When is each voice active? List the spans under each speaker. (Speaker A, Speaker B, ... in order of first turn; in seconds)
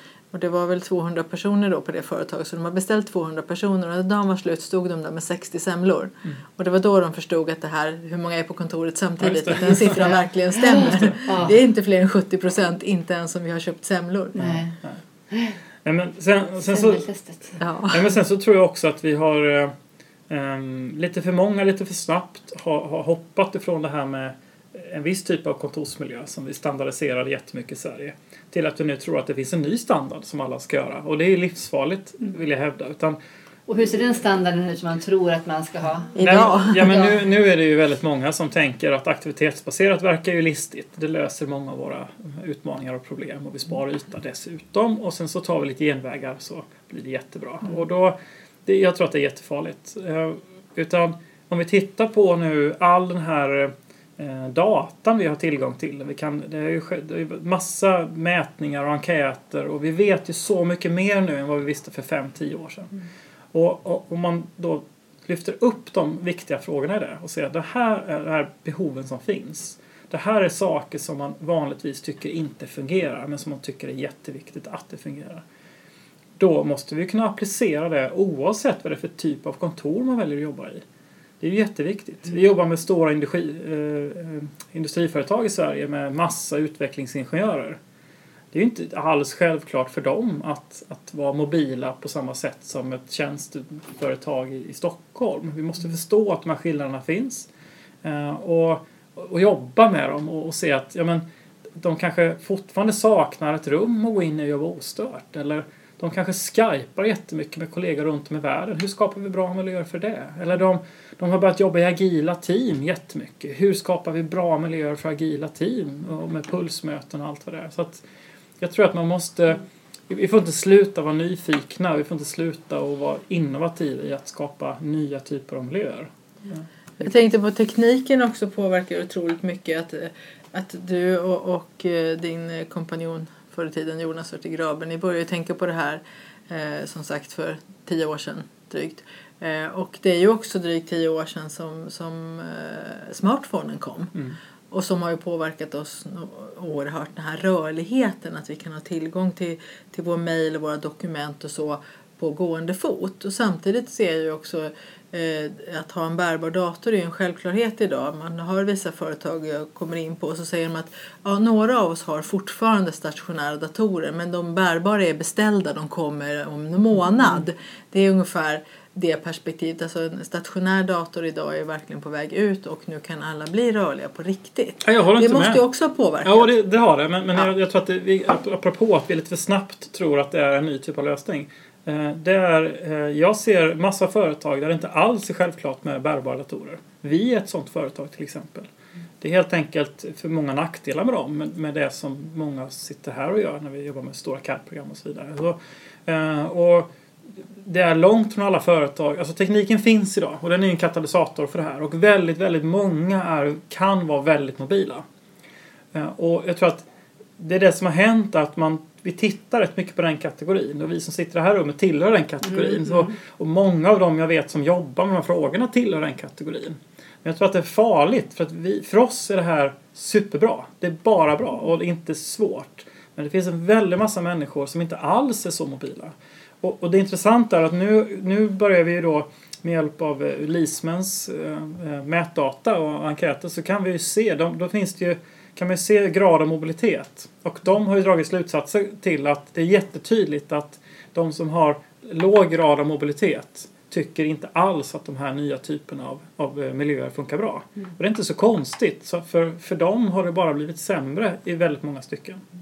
Speaker A: 0.3-14.4, 17.6-18.1, 36.2-36.9, 127.0-144.1, 144.7-176.5
Speaker B: 9.2-10.2, 10.8-11.3, 14.4-15.0, 15.8-17.1, 17.9-19.7, 20.3-33.2, 36.2-62.9, 63.5-75.4, 76.4-80.8, 81.4-87.8, 88.5-97.5, 98.0-101.2, 101.8-118.0, 118.6-126.7, 174.8-175.6, 176.2-205.1, 205.9-206.9, 207.4-252.4
Speaker C: 10.6-11.6, 14.4-14.8, 15.3-15.6, 16.7-17.6, 33.7-37.2, 212.7-213.1